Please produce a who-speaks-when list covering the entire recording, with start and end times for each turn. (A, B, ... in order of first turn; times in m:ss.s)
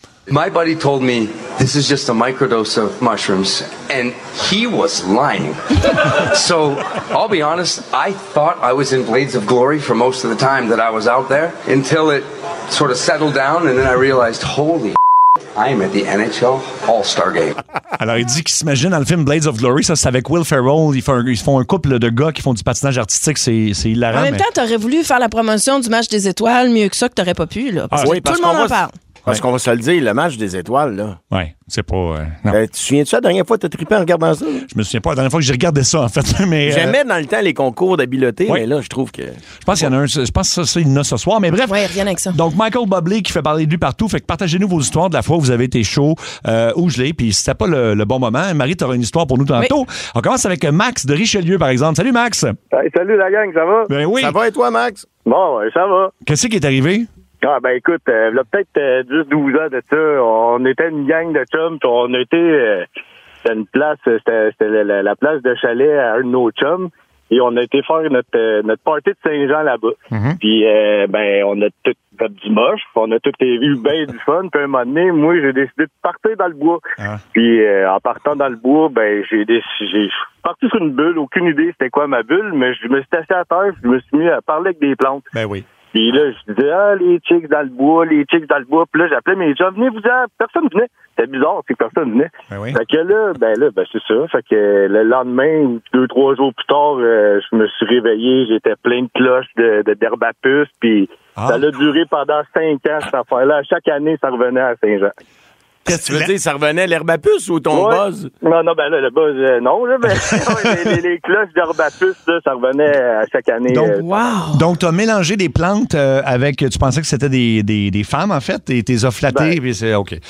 0:00.3-0:05.6 A
0:06.2-0:14.9 A
0:15.5-0:17.6 A
0:18.0-0:24.4 B
0:24.1-0:28.9 C
0:27.9-0:28.2 B
0:28.0-0:31.2 D
0:31.3-0:32.6 B
0:32.5-0:34.6 D
0:34.7-0:37.0 B
0:36.7-0:39.9 D
0:39.6-0:41.8 B
0:41.6-0:42.4 C
0:42.3-0:52.6 B
0:52.7-0:54.0 E
0:53.9-0:54.3 B
0:54.2-0:55.1 D
0:55.2-0:56.1 E
0:56.2-0:57.1 B
0:57.4-1:02.8 E
1:03.4-1:16.8 E
1:10.1-1:10.4 B
1:17.3-1:25.2 E
1:25.3-1:25.6 B
1:25.9-1:45.1 E
1:32.5-1:32.8 B
1:41.4-1:41.6 B
1:45.9-1:48.3 D
1:45.9-1:46.3 B
1:47.7-1:54.1 E
1:50.1-1:51.0 B
1:53.7-1:54.0 B
1:54.0-1:54.6 C
1:54.5-2:00.2 B
1:59.3-1:59.6 E